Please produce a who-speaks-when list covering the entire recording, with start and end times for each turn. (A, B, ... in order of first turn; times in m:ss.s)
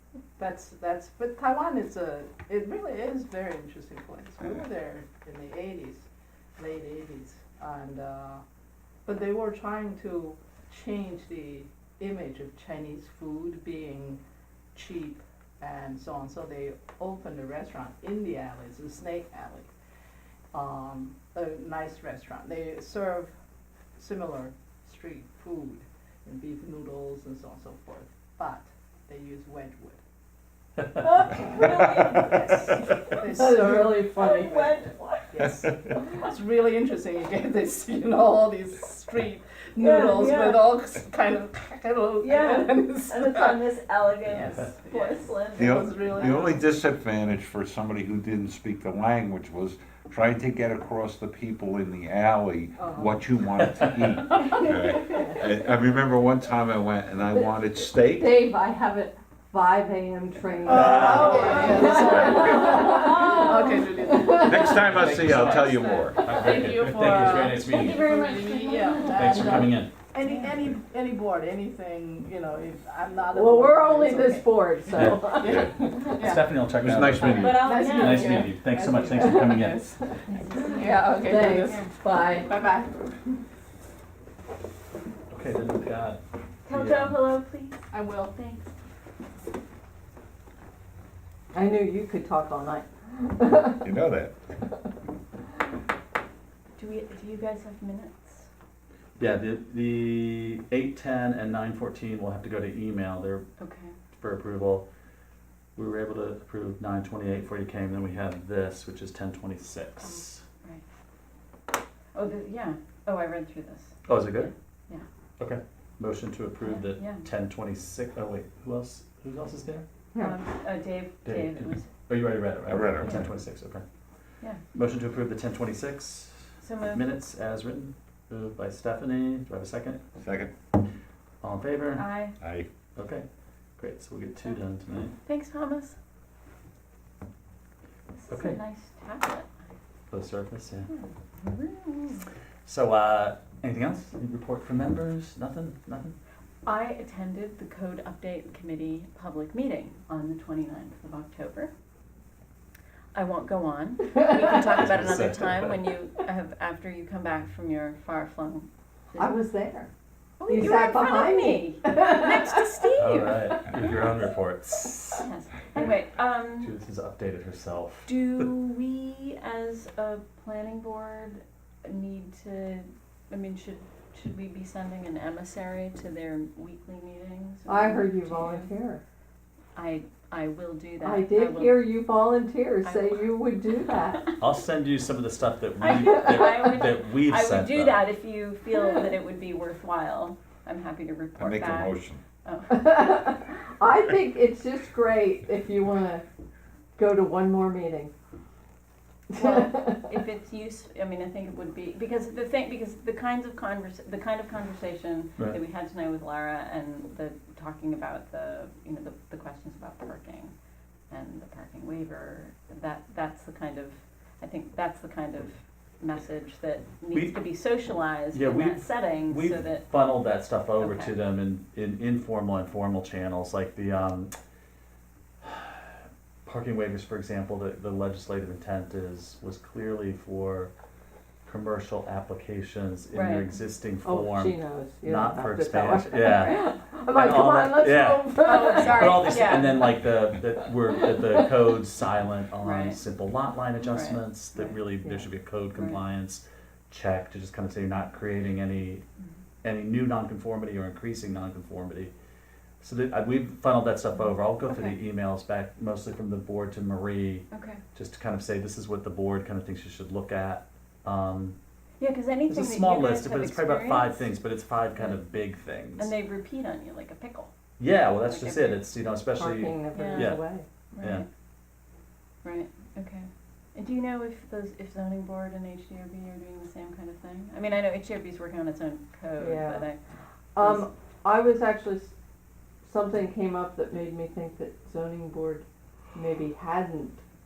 0:00.4-0:08.4 A
0:09.0-0:14.2 A
0:14.7-0:19.7 A
0:20.5-0:23.3 A
0:24.0-0:30.0 A
0:31.0-0:33.6 B
0:33.1-0:34.2 A
0:33.3-0:34.8 C
0:34.1-0:35.4 B
0:35.3-0:43.6 A
0:39.8-0:40.6 B
0:42.2-0:45.8 B
0:44.2-0:46.6 A
0:44.4-0:44.7 D
0:45.6-0:58.4 E
0:52.8-0:53.2 A
0:53.6-0:54.5 D
0:54.8-0:55.4 C
0:57.3-1:04.7 C
1:00.6-1:16.6 A
1:00.7-1:01.3 D
1:01.3-1:02.4 E
1:01.4-1:02.0 B
1:02.9-1:03.7 B
1:04.3-1:06.3 E
1:04.7-1:08.1 D
1:07.6-1:09.2 B
1:08.0-1:09.6 C
1:09.0-1:10.0 D
1:10.2-1:10.6 B
1:13.3-1:16.3 C
1:14.9-1:15.3 D
1:16.1-1:20.0 D
1:16.7-1:17.7 E
1:17.2-1:18.5 B
1:17.5-1:19.9 A
1:19.1-1:20.2 C
1:20.3-1:21.9 B
1:20.6-1:22.9 A
1:21.2-1:22.5 C
1:25.3-1:27.2 D
1:26.6-1:28.7 B
1:27.9-1:28.4 A
1:31.5-1:33.9 C
1:33.8-1:34.3 E
1:36.8-1:38.5 B
1:39.2-1:43.4 D
1:43.6-1:44.0 B
1:44.1-1:44.8 D
1:45.8-1:50.4 D
1:50.0-1:50.8 B
1:52.1-1:55.0 B
1:54.1-1:54.5 D
1:55.4-1:59.8 D
1:56.6-1:57.2 B
2:00.2-2:01.9 B
2:01.2-2:03.8 D
2:02.7-2:03.3 E
2:03.0-2:03.3 B
2:04.7-2:10.0 D
2:06.6-2:07.0 B
2:10.2-2:10.5 E
2:11.4-2:12.2 D
2:11.9-2:12.4 B
2:12.4-2:12.7 E
2:13.0-2:13.2 D
2:13.8-2:15.1 D
2:15.2-2:16.0 B
2:18.1-2:19.5 B
2:18.3-2:18.6 D
2:20.1-2:20.9 D
2:20.9-2:22.2 B
2:22.6-2:26.2 D
2:26.6-2:31.7 B
2:33.1-2:39.3 B
2:34.7-2:35.9 D
2:39.2-2:39.9 C
2:40.4-2:43.6 B
2:40.5-2:42.6 C
2:43.0-2:45.2 D
2:45.2-2:46.7 B
2:46.6-2:48.1 D
2:48.0-2:58.7 B
2:57.7-2:59.0 C
2:59.7-3:02.0 B
3:01.0-3:04.3 C
3:02.8-3:03.3 B
3:04.4-3:08.1 D
3:05.8-3:13.1 B
3:11.4-3:12.2 E
3:12.7-3:16.2 C
3:17.0-3:18.1 C
3:19.3-3:20.1 C
3:19.4-3:30.5 B
3:31.1-3:39.9 B
3:37.1-3:37.7 D
3:38.3-3:44.3 D
3:40.8-3:41.2 B
3:45.4-3:50.7 D
3:51.4-4:09.0 D
3:53.1-3:53.5 B
3:54.0-3:59.6 C
3:56.2-3:56.7 B
3:58.4-4:00.0 B
4:02.6-4:03.0 B
4:03.8-4:04.2 B
4:04.6-4:05.3 C
4:05.7-4:06.0 B
4:09.6-4:12.1 D
4:12.8-4:21.6 D
4:14.5-4:15.0 B
4:17.5-4:17.8 B
4:22.0-4:24.3 B
4:22.5-4:26.1 D
4:25.0-4:25.2 B
4:26.0-4:27.5 B
4:27.8-4:30.4 D
4:28.2-4:28.9 B
4:29.3-4:30.6 C
4:29.9-4:30.4 B
4:30.9-4:31.2 B
4:32.4-4:40.0 B
4:39.4-4:39.9 C
4:40.5-4:42.1 C
4:40.6-4:40.8 B
4:42.8-4:47.2 C